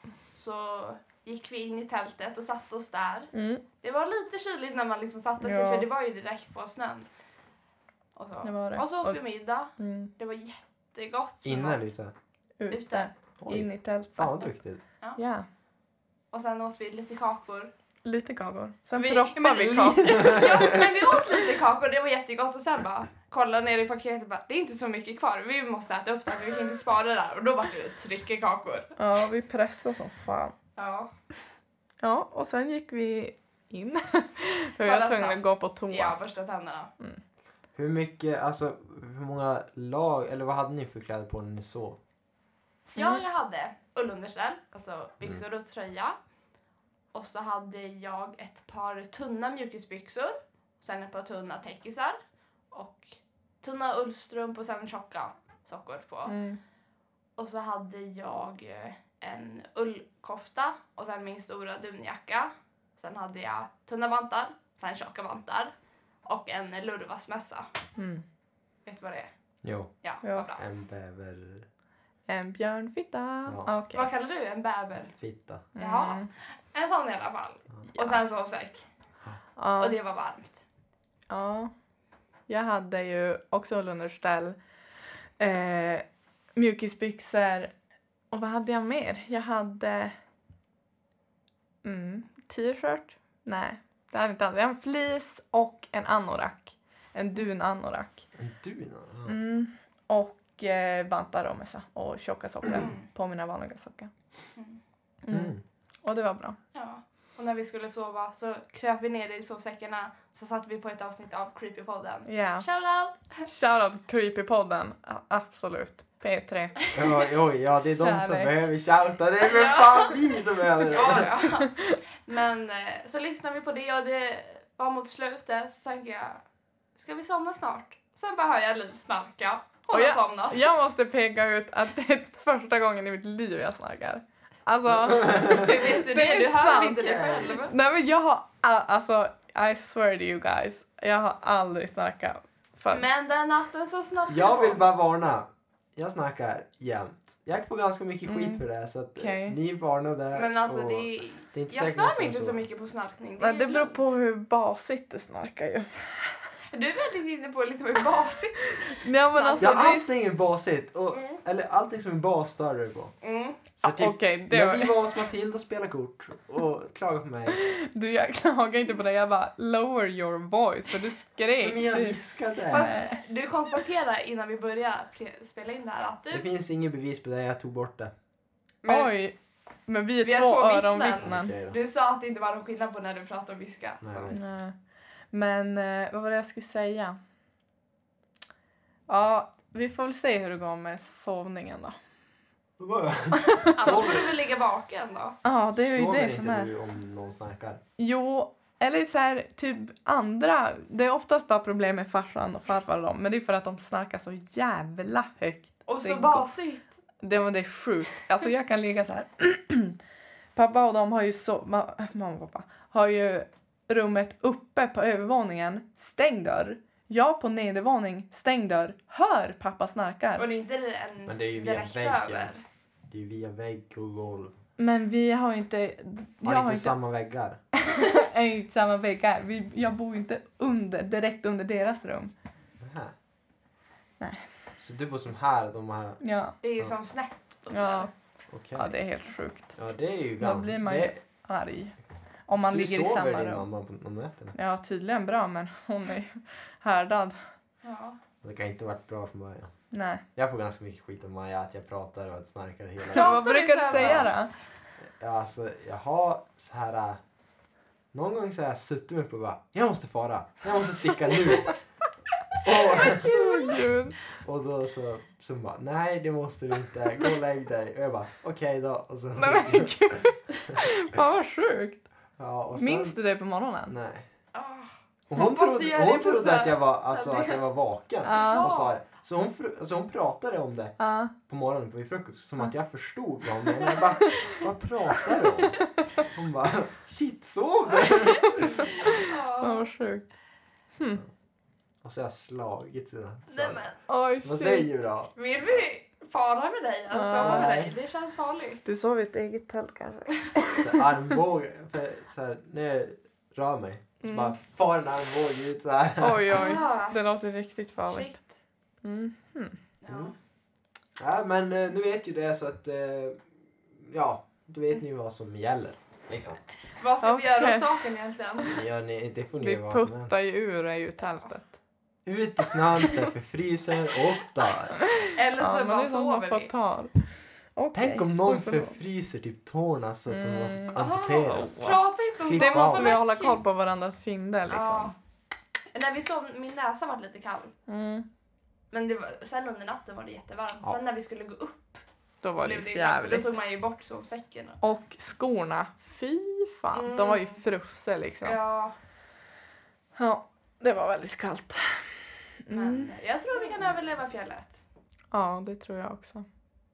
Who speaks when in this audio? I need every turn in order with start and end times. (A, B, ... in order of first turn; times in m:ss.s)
0:00.4-0:07.1 A
0:03.3-0:03.6 B
0:05.4-0:05.9 B
0:08.2-0:11.9 A
0:08.4-0:09.2 B
0:09.8-0:10.1 B
0:11.4-0:12.1 C
0:12.6-0:14.5 B
0:12.7-0:13.1 A
0:13.4-0:14.8 C
0:15.2-0:15.5 B
0:16.3-0:17.7 A
0:18.0-0:20.9 B
0:19.0-0:28.9 A
0:20.0-0:20.8 C
0:29.0-0:30.5 B
0:30.8-0:31.1 A
0:32.0-0:36.2 B
0:34.8-0:36.9 A
0:37.8-0:42.0 C
0:42.9-0:46.2 A
0:47.1-0:52.2 A
0:52.7-0:56.4 A
0:56.3-0:56.6 B
0:57.4-1:05.7 A
1:06.2-1:07.7 A
1:08.0-1:08.2 B
1:08.8-1:09.3 A
1:09.6-1:09.9 C
1:10.0-1:10.6 A
1:10.6-1:11.6 C
1:12.3-1:14.1 B
1:13.9-1:15.1 A
1:15.2-1:15.6 C
1:15.7-1:16.3 B
1:15.8-1:18.8 A
1:17.9-1:18.2 B
1:19.6-1:20.0 B
1:19.8-1:20.6 A
1:21.3-1:21.7 B
1:22.5-1:24.6 B
1:25.4-1:26.0 B
1:26.6-1:27.7 B
1:28.3-1:30.1 B
1:31.8-1:38.2 B
1:38.4-1:39.4 C
1:39.2-1:44.1 B
1:42.8-1:43.0 A
1:45.2-1:46.6 B
1:45.3-1:45.6 C
1:46.7-1:53.5 A
1:52.3-1:52.6 B
1:53.4-1:56.8 B
1:56.9-2:01.3 C
1:57.9-1:58.5 B
1:59.4-2:00.2 A
2:00.8-2:06.4 A
2:07.0-2:10.6 A
2:09.9-2:23.0 B
2:14.9-2:15.7 C
2:15.4-2:17.7 A
2:22.9-2:24.8 A
2:24.3-2:32.6 C
2:28.2-2:28.6 B
2:29.2-2:29.6 B
2:30.3-2:34.1 A
2:33.4-2:36.4 B
2:36.7-2:39.9 A
2:39.0-2:40.1 B
2:39.6-2:43.1 C
2:41.1-2:41.4 A
2:43.2-2:43.6 A
2:43.8-2:47.6 C
2:43.8-2:44.9 B
2:47.5-2:52.2 B
2:51.6-2:52.9 C
2:52.7-2:56.5 A
2:52.7-2:53.2 B
2:56.3-2:58.1 C
2:58.8-2:59.1 A
2:58.8-3:01.5 B
3:00.2-3:04.4 A
3:01.2-3:01.8 C
3:04.0-3:04.4 C
3:04.3-3:04.7 B
3:05.3-3:07.2 B
3:09.1-3:12.0 B
3:12.8-3:14.3 C
3:13.3-3:14.1 B
3:13.7-3:15.4 A
3:15.4-3:16.7 B
3:15.8-3:17.8 C
3:18.0-3:26.5 B
3:25.9-3:26.9 A
3:27.2-3:30.0 B
3:30.5-3:40.4 B
3:40.4-3:42.6 A
3:41.2-3:42.5 C
3:43.1-3:44.5 C
3:44.8-3:46.9 B
3:46.4-3:47.6 C
3:47.8-3:52.3 B
3:52.8-3:53.1 C
3:54.8-3:56.2 C
3:56.2-3:56.6 B
3:56.6-3:58.1 A
3:57.7-3:58.1 B
3:58.5-3:58.9 C
3:58.8-3:59.7 B
3:59.8-4:01.2 C
4:00.4-4:01.9 B
4:02.5-4:03.6 B
4:02.7-4:04.5 C
4:04.5-4:07.4 B
4:07.8-4:08.2 A
4:08.4-4:09.7 C
4:09.9-4:10.2 B
4:10.3-4:14.3 C
4:13.1-4:14.3 A
4:13.1-4:14.5 B
4:15.1-4:17.2 C
4:18.1-4:21.8 C
4:22.6-4:23.3 C
4:22.8-4:23.9 A
4:23.1-4:24.2 B
4:24.4-4:30.2 C
4:29.4-4:32.0 B
4:32.4-4:33.2 C
4:32.8-4:33.9 B
4:33.9-4:34.3 C
4:34.5-4:37.7 A
4:35.3-4:48.9 C
4:38.2-4:39.0 A
4:38.2-4:38.7 B
4:41.0-4:41.3 B
4:48.6-4:49.9 A
4:49.0-4:50.2 B
4:52.0-4:53.8 C
4:53.5-4:54.0 A
4:54.1-4:54.9 B
4:54.4-4:55.3 C
4:55.4-4:58.8 A
4:57.1-4:57.7 B
4:57.4-4:57.9 C
4:58.8-5:01.3 B
5:00.8-5:06.8 C
5:04.2-5:04.6 B
5:06.2-5:08.4 B
5:06.5-5:07.2 A
5:08.1-5:08.5 A
5:09.0-5:09.8 B
5:10.0-5:10.3 A
5:10.1-5:10.3 C
5:11.2-5:16.6 C
5:17.0-5:18.8 A
5:17.2-5:18.0 B
5:18.7-5:20.3 C
5:19.6-5:21.7 B
5:22.2-5:24.9 C
5:25.2-5:28.9 B
5:25.3-5:26.7 A
5:27.9-5:33.1 C
5:30.3-5:32.0 B
5:31.0-5:33.6 A
5:32.5-5:35.1 B
5:34.7-5:35.1 A
5:35.9-5:37.7 A
5:37.9-5:38.3 B
5:38.9-5:42.0 A
5:42.4-5:43.6 B
5:42.6-5:44.8 A
5:44.8-5:48.6 B
5:46.9-5:47.6 A
5:48.4-5:48.9 A
5:50.2-5:53.1 B
5:52.7-5:54.8 A
5:55.3-5:56.4 B